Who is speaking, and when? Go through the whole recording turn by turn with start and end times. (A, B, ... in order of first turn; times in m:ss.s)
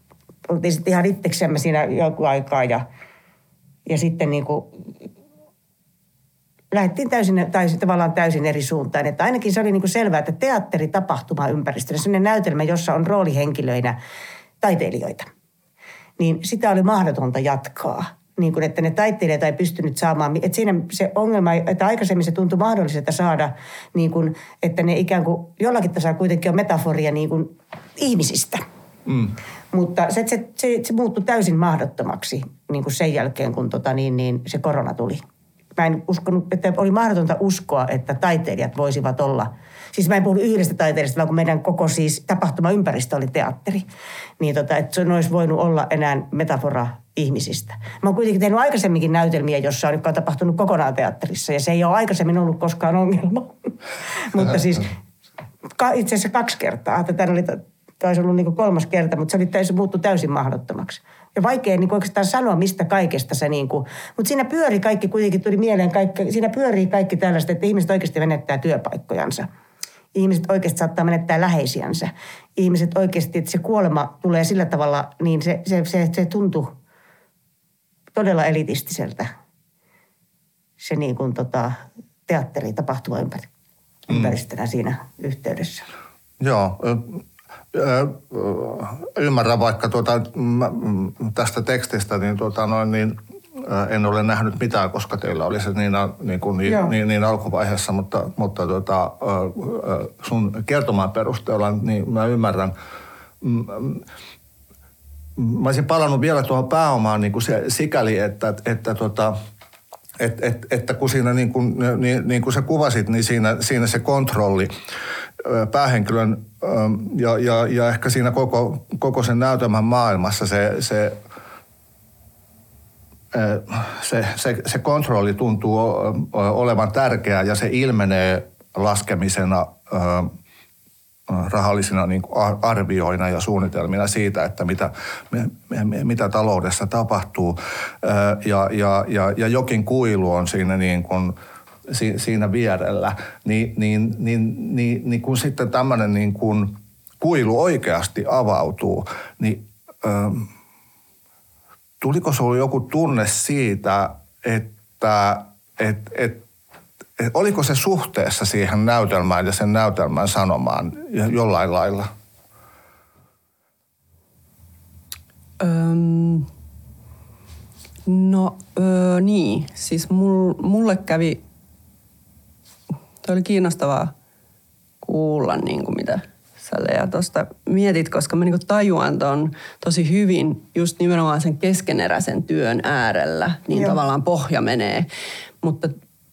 0:00.5-0:02.9 A
0:03.9-0:04.7 A
0:06.7-0:14.0 A
0:14.6-0:15.3 A
0:16.2-0:28.6 A
0:29.1-0:29.3 B
0:29.7-0:35.2 A
0:35.8-0:43.9 A
0:44.4-0:53.5 A
0:54.2-0:54.9 A
0:55.8-1:09.5 A
1:10.2-1:16.7 A
1:18.1-1:19.3 A
1:20.8-1:23.5 A
1:24.1-1:25.9 A
1:26.4-1:42.7 B
1:36.7-1:36.9 A
1:43.4-1:44.0 B
1:45.4-1:49.3 B
1:50.2-1:54.7 B
1:55.4-2:01.2 B
2:03.3-2:10.3 B
2:11.3-2:21.3 B
2:21.9-2:30.5 B
2:32.0-2:36.4 B
2:37.2-2:42.1 B
2:45.6-2:46.5 C
2:48.1-2:51.4 C
2:53.2-2:54.1 C
2:55.0-3:05.1 C
3:03.7-3:04.0 A
3:05.6-3:05.9 C